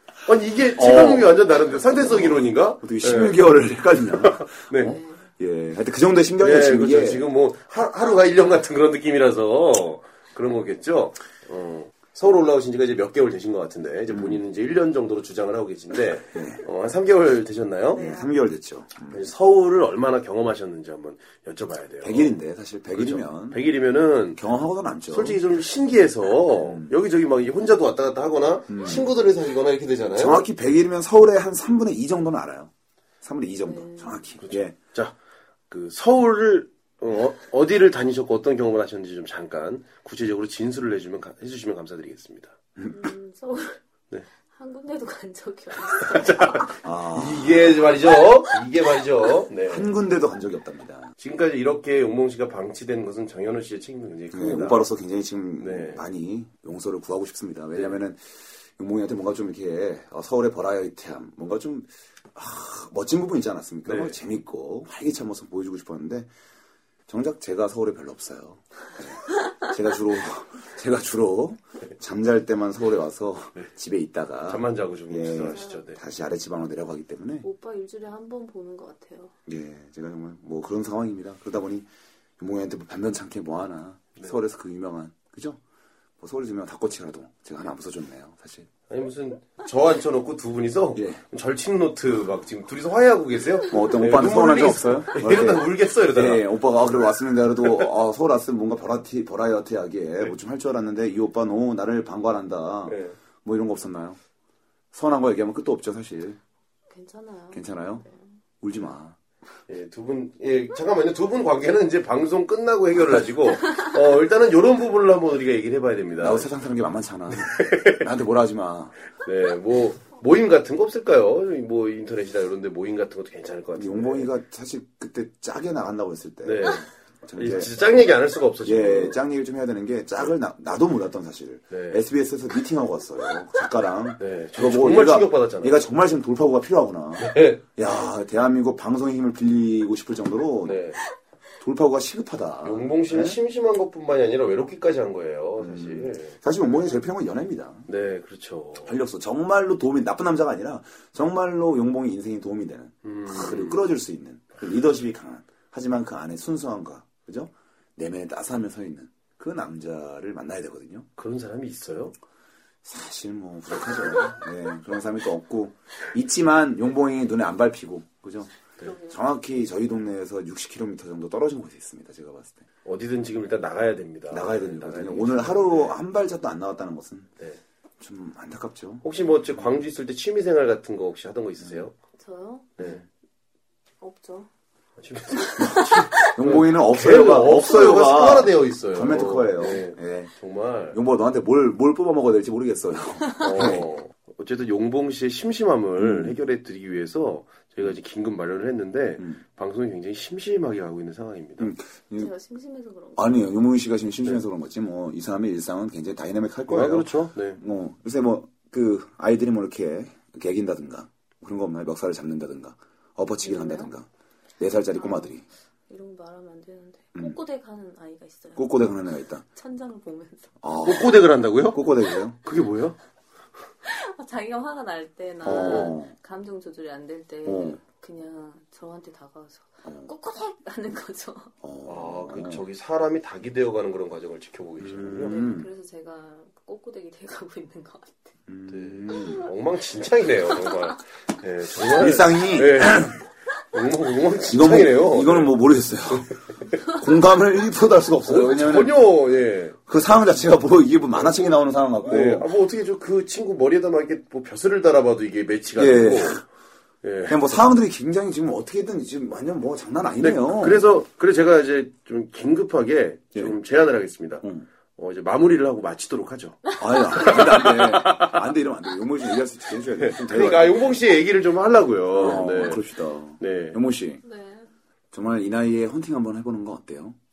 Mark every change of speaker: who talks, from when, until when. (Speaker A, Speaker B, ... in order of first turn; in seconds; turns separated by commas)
Speaker A: 0.3-3.4, Speaker B: 0.8-1.4, Speaker B: 1.9-7.2, Speaker A: 4.2-5.0, Speaker C: 4.9-5.2, Speaker A: 6.4-18.1, Speaker B: 14.1-14.4, Speaker B: 16.3-16.6, Speaker C: 17.9-18.3, Speaker B: 18.0-19.2, Speaker A: 19.1-22.4, Speaker B: 22.0-23.6, Speaker A: 22.9-24.4, Speaker B: 24.3-25.4, Speaker A: 25.1-30.4, Speaker B: 26.6-26.9, Speaker B: 28.7-29.1, Speaker B: 30.1-32.7, Speaker B: 33.2-34.7, Speaker C: 33.6-34.2, Speaker A: 34.4-35.1, Speaker A: 35.7-42.5, Speaker B: 42.8-43.1, Speaker C: 42.9-43.8, Speaker C: 44.5-46.7, Speaker A: 46.0-49.9, Speaker B: 46.8-47.9, Speaker B: 49.6-51.1, Speaker A: 51.2-54.9, Speaker B: 54.3-58.2, Speaker A: 55.6-56.0, Speaker B: 58.8-66.3, Speaker A: 63.9-64.2, Speaker B: 67.1-77.5, Speaker A: 74.5-76.0, Speaker C: 75.5-75.8, Speaker C: 77.4-79.3, Speaker B: 79.5-81.9, Speaker B: 82.4-85.6, Speaker B: 86.2-88.7, Speaker A: 88.9-96.6, Speaker B: 91.0-91.2, Speaker B: 93.7-104.2, Speaker A: 102.9-103.2, Speaker B: 104.9-106.4, Speaker C: 106.9-108.4, Speaker B: 107.5-108.0, Speaker B: 108.6-109.2, Speaker A: 109.7-116.5, Speaker B: 116.2-119.0, Speaker A: 117.5-118.0, Speaker A: 119.2-124.3, Speaker B: 123.8-127.8, Speaker A: 126.4-126.8, Speaker A: 127.4-129.2, Speaker B: 128.6-140.8, Speaker A: 131.7-132.0, Speaker A: 134.2-135.9, Speaker A: 137.2-137.6, Speaker A: 140.6-141.0, Speaker B: 141.6-143.4, Speaker A: 142.6-146.4, Speaker B: 145.6-147.9, Speaker A: 147.9-149.0, Speaker B: 148.8-161.1, Speaker A: 153.1-153.9, Speaker A: 161.2-162.2, Speaker B: 162.8-168.6, Speaker C: 168.8-169.2, Speaker B: 169.1-172.7, Speaker A: 172.8-176.0, Speaker B: 174.3-177.3, Speaker B: 178.0-179.1, Speaker A: 179.0-181.9, Speaker C: 182.2-182.8, Speaker A: 182.8-183.0, Speaker C: 184.0-184.5, Speaker A: 185.0-191.0, Speaker C: 185.3-186.3, Speaker B: 185.6-190.3, Speaker B: 190.9-193.9, Speaker A: 193.4-201.7, Speaker B: 196.0-196.4, Speaker B: 201.6-202.3, Speaker C: 202.1-203.4, Speaker B: 203.2-214.1, Speaker A: 206.7-207.6, Speaker C: 213.4-213.9, Speaker B: 214.6-215.4, Speaker C: 214.9-215.4, Speaker C: 215.9-218.9, Speaker B: 218.6-219.4, Speaker C: 219.4-220.6, Speaker B: 220.6-222.4, Speaker A: 220.8-221.8, Speaker A: 222.4-223.0, Speaker C: 223.8-231.5, Speaker B: 225.4-226.1, Speaker B: 227.4-227.8, Speaker B: 229.8-230.1, Speaker B: 231.6-232.6, Speaker A: 231.9-235.3, Speaker B: 234.8-235.7, Speaker C: 235.3-238.3, Speaker B: 238.5-239.4, Speaker A: 238.7-243.1, Speaker B: 241.8-243.2, Speaker A: 243.7-245.6, Speaker B: 244.5-249.0, Speaker A: 246.3-246.6, Speaker A: 248.2-249.8, Speaker B: 249.9-252.5, Speaker A: 251.1-256.4, Speaker B: 255.8-256.4, Speaker A: 257.0-257.6, Speaker B: 257.3-260.9, Speaker A: 260.2-266.6, Speaker C: 266.7-267.8, Speaker B: 266.8-270.9, Speaker A: 267.1-268.4, Speaker A: 270.0-272.8, Speaker B: 272.2-274.2, Speaker A: 273.4-273.8, Speaker C: 274.2-274.7, Speaker B: 275.1-277.2